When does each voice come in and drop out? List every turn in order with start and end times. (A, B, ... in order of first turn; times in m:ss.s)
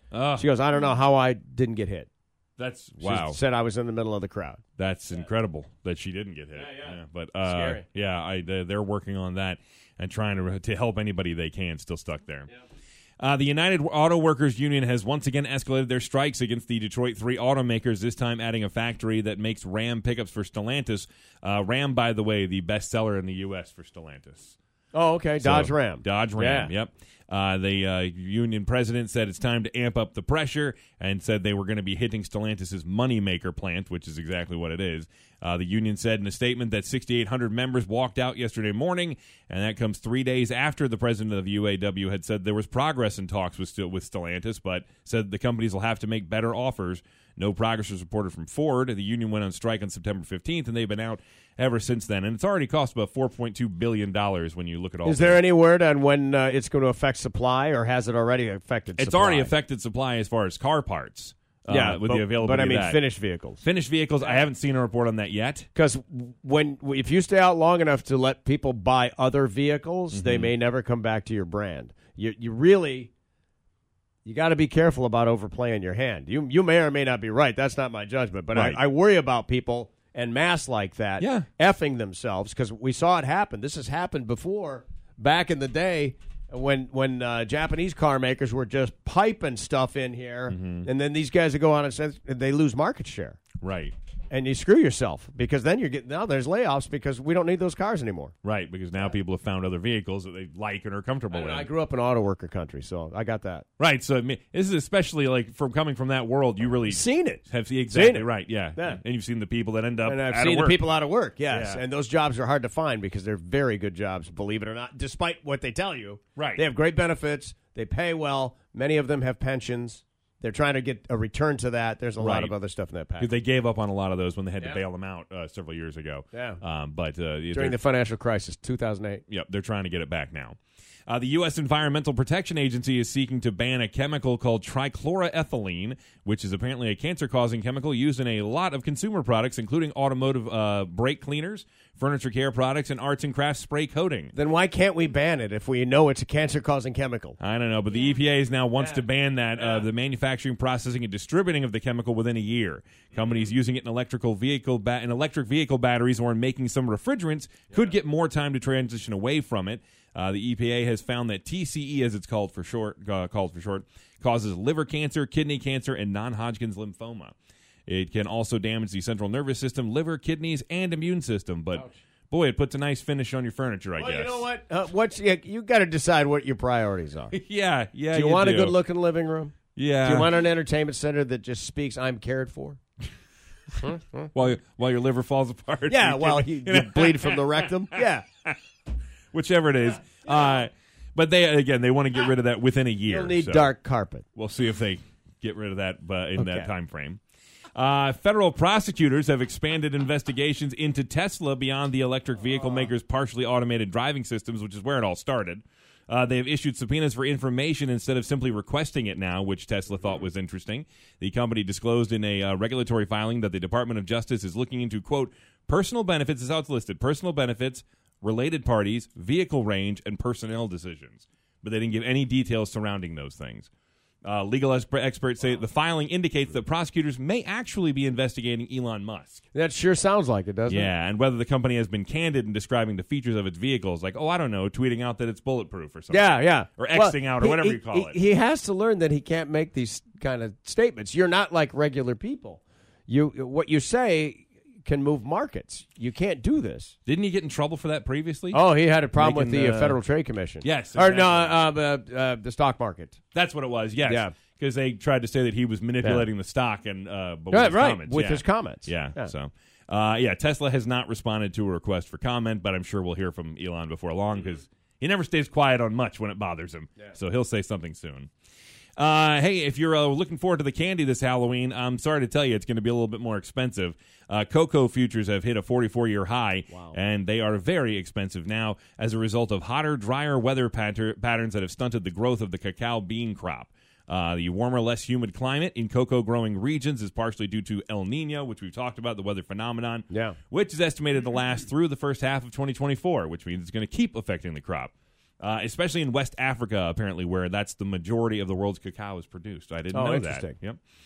0:00.1-0:00.5 A
0:00.4-0:02.1 B
0:02.6-0:03.4 A
0:03.0-0:04.6 B
0:04.8-0:12.5 A
0:06.6-0:07.8 B
0:13.2-0:24.6 A
0:24.9-0:26.7 B
0:25.4-0:55.4 A
0:55.0-0:59.5 B
0:59.0-1:03.0 A
1:01.7-1:03.6 B
1:03.6-1:05.7 A
1:04.2-1:04.5 B
1:05.8-1:13.1 B
1:10.1-1:10.5 A
1:14.2-1:33.4 B
1:18.5-1:18.8 A
1:21.2-1:21.5 A
1:30.5-1:30.9 A
1:33.6-1:33.9 A
1:34.3-1:38.3 B
1:38.4-1:41.7 A
1:41.3-1:43.7 B
1:43.8-1:50.8 A
1:46.8-1:49.0 B
1:50.0-2:03.4 B
1:51.5-1:51.8 A
1:56.4-1:56.6 A
2:02.2-2:02.5 A
2:03.2-2:07.8 A
2:06.3-2:06.6 B
2:07.5-2:09.2 B
2:09.3-2:24.3 A
2:24.3-2:27.4 B
2:27.4-2:47.3 A
2:47.9-2:54.4 A
2:54.0-2:57.3 B
2:57.3-2:58.8 A
2:58.1-3:02.8 B
2:59.8-3:00.3 A
3:03.8-3:04.3 B
3:04.3-3:08.5 A
3:05.9-3:08.2 B
3:09.3-3:13.7 A
3:13.1-3:14.2 B
3:14.4-3:17.2 A
3:16.4-3:16.7 B
3:17.8-3:43.7 A
3:44.2-3:49.4 A
3:49.5-3:50.9 B
3:50.7-3:58.2 A
3:56.1-4:06.9 B
4:07.1-4:08.6 A
4:08.5-4:13.2 B
4:09.2-4:10.0 A
4:10.6-4:11.6 A
4:13.3-4:28.3 A
4:14.0-4:14.3 B
4:16.0-4:16.3 B
4:17.5-4:19.3 B
4:29.0-5:00.8 A
4:36.7-4:37.0 B
4:50.1-4:50.4 B
4:59.9-5:00.6 B